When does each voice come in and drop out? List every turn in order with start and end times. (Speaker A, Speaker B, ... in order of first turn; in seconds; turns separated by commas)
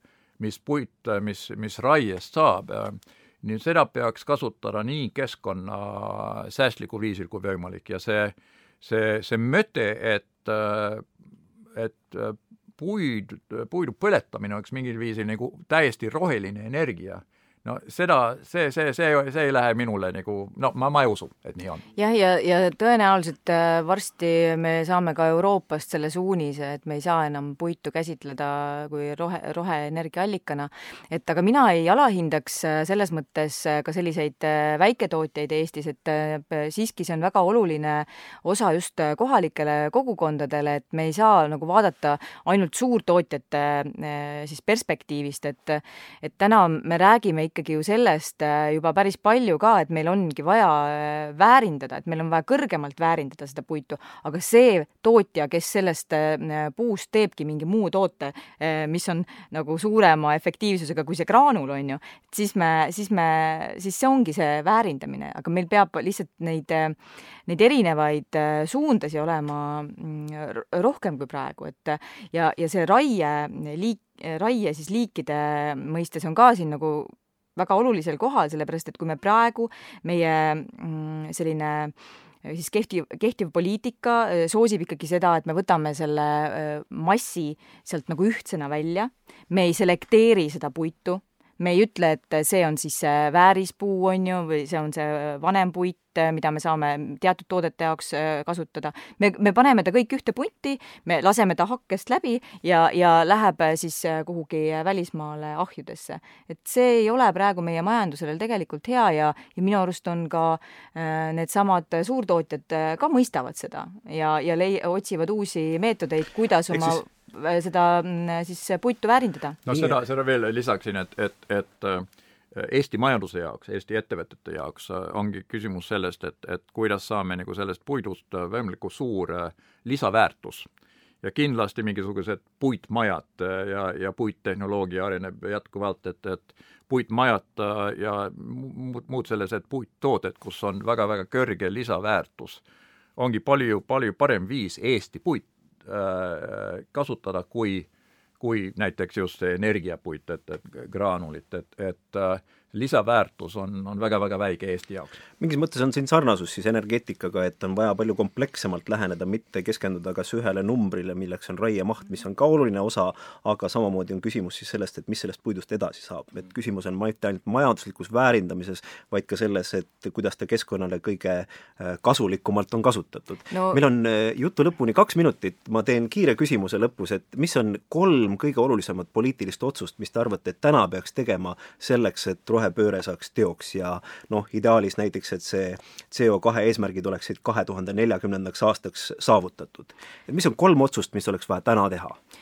Speaker A: 0.4-11.1, Speaker A: 11.7-21.9, Speaker B: 22.0-119.6, Speaker C: 116.7-117.0, Speaker A: 119.7-130.7, Speaker C: 119.7-120.0, Speaker A: 131.2-142.6, Speaker A: 143.2-147.9, Speaker A: 148.4-155.2, Speaker C: 155.4-192.2, Speaker B: 173.5-173.8